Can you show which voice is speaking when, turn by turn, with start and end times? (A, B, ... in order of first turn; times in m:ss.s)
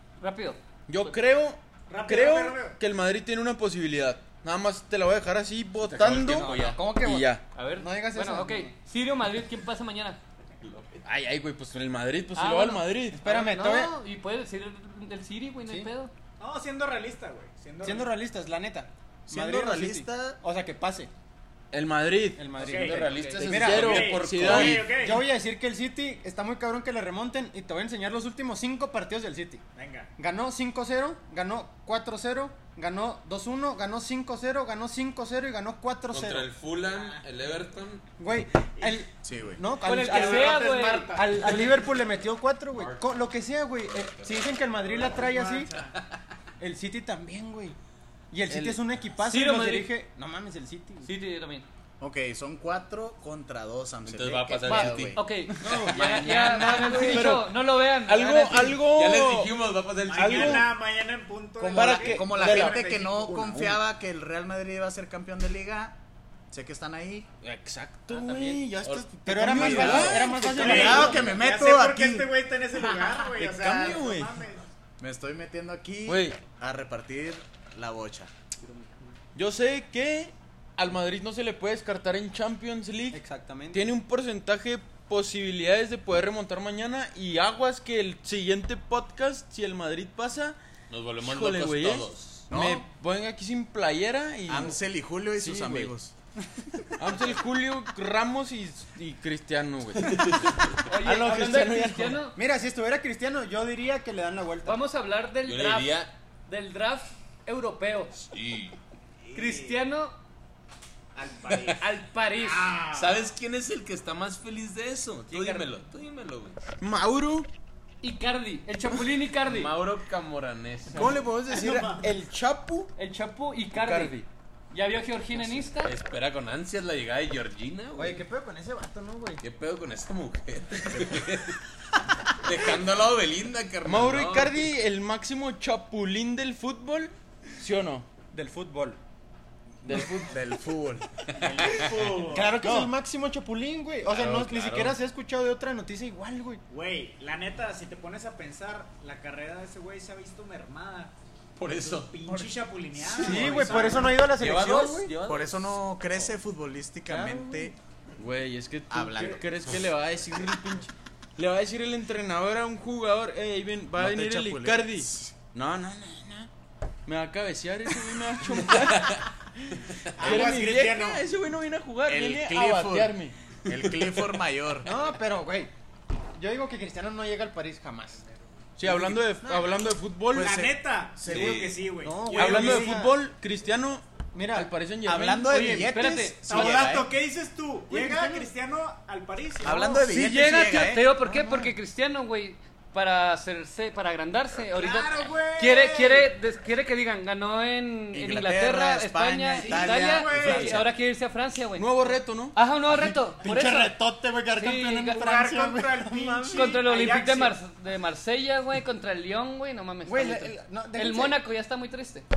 0:00.2-0:01.1 A
0:00.9-0:07.4 B
0:01.9-0:02.8 C
0:05.8-0:06.8 D
0:06.0-0:08.7 E
0:07.5-0:10.2 A
0:10.6-0:11.0 D
0:11.0-0:13.2 B
0:12.3-0:16.1 A
0:13.2-0:14.0 E
0:16.4-0:18.1 C
0:17.8-0:21.1 E
0:19.3-0:20.4 F
0:21.7-0:22.6 B
0:22.4-0:29.6 E
0:22.6-0:23.1 C
0:22.6-0:24.8 D
0:23.1-0:23.4 A
0:23.2-0:24.9 B
0:23.7-0:25.2 C
0:29.8-0:30.1 C
0:30.2-0:36.5 E
0:36.1-0:38.0 D
0:38.2-0:45.7 E
0:38.8-0:39.0 C
0:39.2-0:39.6 F
0:39.8-0:41.8 A
0:39.9-0:41.8 C
0:42.8-0:43.0 D
0:44.0-0:44.4 D
0:44.8-0:46.0 C
0:46.6-0:47.8 E
0:48.3-0:51.1 E
0:48.5-0:48.8 B
0:49.2-0:49.9 A
0:51.0-0:51.7 A
0:52.0-0:55.2 F
0:54.0-0:55.2 D
0:54.6-0:58.8 A
0:55.6-0:59.5 B
0:55.6-0:55.9 E
0:55.9-0:56.8 D
0:56.5-0:57.2 F
0:58.8-1:00.7 D
1:00.1-1:03.5 C
1:00.1-1:00.7 B
1:01.6-1:06.0 F
1:01.7-1:03.8 B
1:06.5-1:07.3 F
1:07.4-1:11.1 B
1:08.8-1:10.4 D
1:09.2-1:11.3 E
1:09.9-1:12.3 F
1:10.4-1:14.7 C
1:13.3-1:14.3 B
1:15.0-1:18.3 F
1:16.0-1:16.4 B
1:19.3-1:23.2 B
1:23.1-1:23.9 E
1:23.7-1:30.6 B
1:30.9-1:32.4 D
1:31.2-1:34.8 B
1:32.5-1:32.9 F
1:34.5-1:36.1 F
1:35.4-1:35.9 B
1:37.0-1:40.5 B
1:40.0-1:40.8 D
1:40.9-1:42.4 A
1:41.0-1:42.2 B
1:42.4-1:44.8 E
1:44.6-1:48.1 A
1:45.4-1:46.1 D
1:48.2-1:48.8 D
1:49.2-1:49.8 C
1:49.3-1:50.1 A
1:51.1-1:53.3 C
1:51.8-1:52.8 A
1:52.9-1:56.6 D
1:55.3-1:55.6 A
1:56.8-1:57.5 B
1:58.0-1:59.7 A
1:59.4-2:01.2 D
2:00.9-2:02.9 B
2:01.5-2:02.0 C
2:03.0-2:04.2 A
2:03.7-2:04.3 B
2:04.7-2:05.9 A
2:05.8-2:08.2 D
2:08.0-2:09.4 E
2:09.4-2:11.6 D
2:12.3-2:14.6 D
2:13.8-2:18.1 B
2:18.3-2:19.0 E
2:19.8-2:20.4 B
2:19.9-2:21.1 F
2:21.4-2:22.3 D
2:21.4-2:22.5 C
2:22.3-2:26.6 E
2:22.6-2:22.9 B
2:24.1-2:25.0 D
2:26.7-2:31.1 C
2:31.6-2:32.4 D
2:31.8-2:34.3 C
2:33.1-2:35.1 E
2:33.1-2:33.8 B
2:34.1-2:36.2 D
2:35.2-2:37.8 F
2:37.1-2:37.7 E
2:38.2-2:46.5 B
2:38.9-2:39.5 F
2:44.0-2:45.4 F
2:47.0-2:53.3 B
2:50.2-2:51.2 C
2:52.0-2:54.9 F
2:54.8-2:55.7 E
2:56.3-2:58.2 E
2:58.8-3:00.7 B
2:58.9-2:59.2 F
3:00.3-3:02.9 C
3:00.4-3:01.8 F
3:01.2-3:01.8 D
3:02.0-3:03.2 E
3:02.3-3:05.8 B
3:04.3-3:04.7 E
3:05.0-3:07.1 F
3:05.5-3:06.7 A
3:06.5-3:10.0 C
3:07.9-3:08.5 E
3:09.6-3:11.2 F
3:09.9-3:24.0 A
3:11.2-3:11.7 E
3:14.7-3:16.3 C
3:18.1-3:20.9 F
3:19.6-3:20.8 C
3:21.8-3:22.6 B
3:22.9-3:26.9 E
3:24.5-3:25.2 A
3:25.1-3:27.6 C
3:26.5-3:32.2 A
3:30.0-3:31.4 E